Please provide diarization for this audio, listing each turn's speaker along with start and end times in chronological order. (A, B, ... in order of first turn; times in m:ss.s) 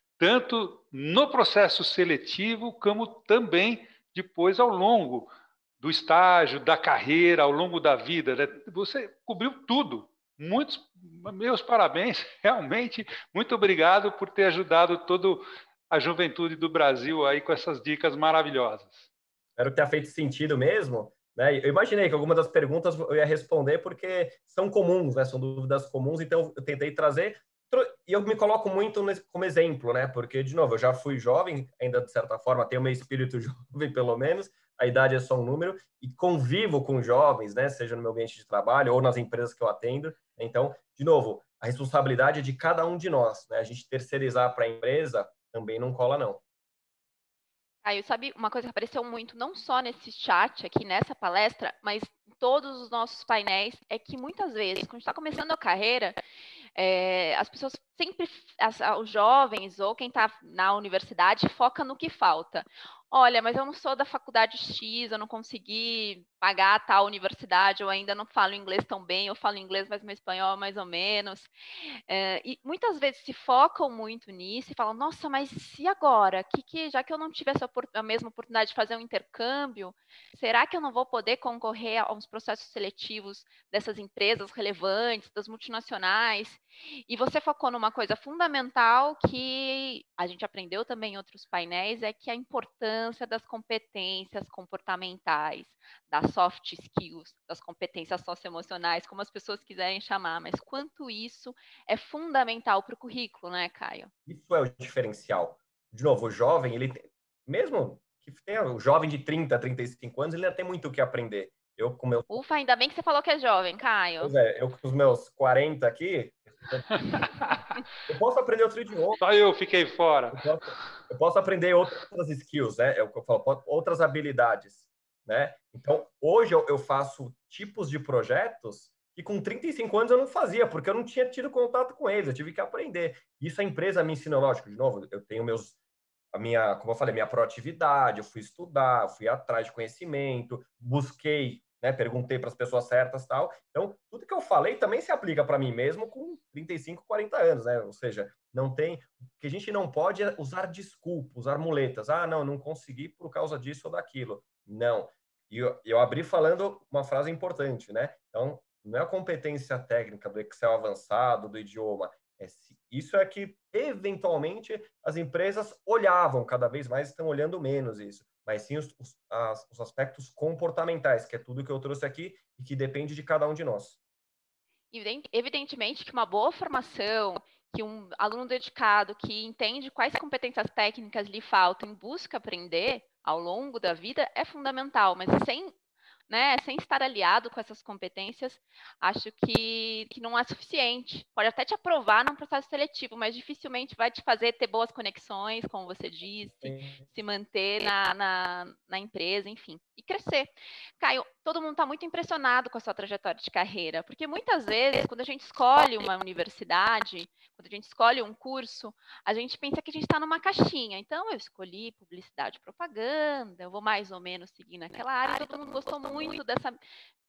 0:00.2-0:19.1 A
0:19.6-0:46.4 B
0:47.8-0:56.2 C
0:56.8-1:11.5 C
1:12.1-1:44.1 C
1:44.3-1:52.4 B
1:52.3-1:54.3 C
1:54.2-1:57.3 B
1:57.2-1:57.6 A
1:58.1-1:59.2 B
1:59.2-2:00.4 A
2:00.3-2:15.8 B
2:16.3-2:54.0 B
2:54.9-3:05.8 C
3:06.3-3:36.8 C